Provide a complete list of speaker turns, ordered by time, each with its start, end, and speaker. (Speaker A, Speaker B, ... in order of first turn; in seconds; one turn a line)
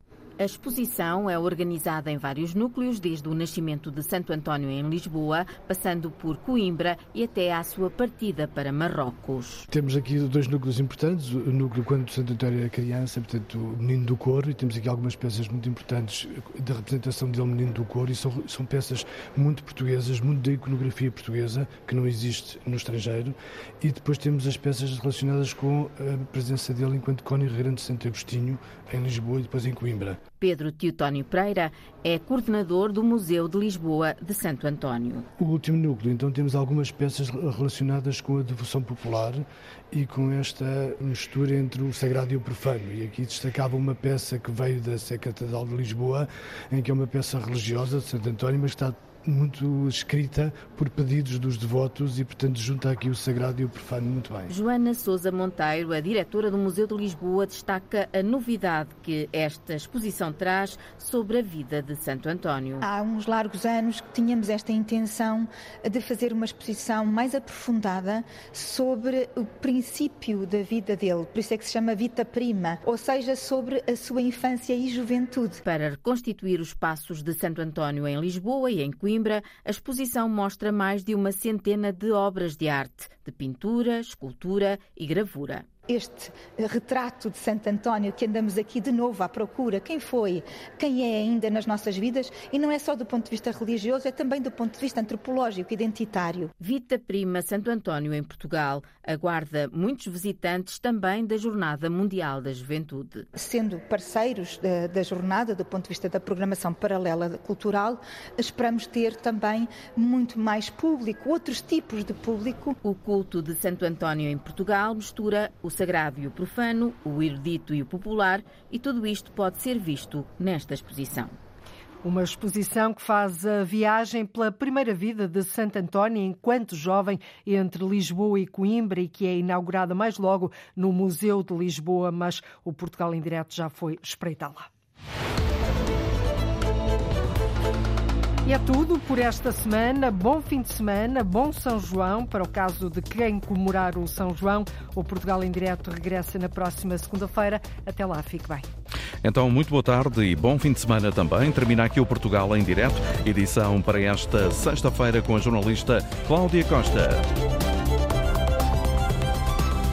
Speaker A: 0.4-9.7
Speaker B: 9.7-30.2
Speaker A: 30.4-35.2
Speaker B: 35.4-54.5
Speaker A: 54.5-62.8
Speaker C: 62.8-75.6
Speaker A: 75.7-85.7
Speaker C: 85.9-96.5
Speaker A: 96.6-103.3
Speaker C: 103.3-112.8
Speaker A: 112.8-121.3
Speaker D: 122.0-134.7
Speaker D: 138.4-148.7
Speaker E: 149.2-157.2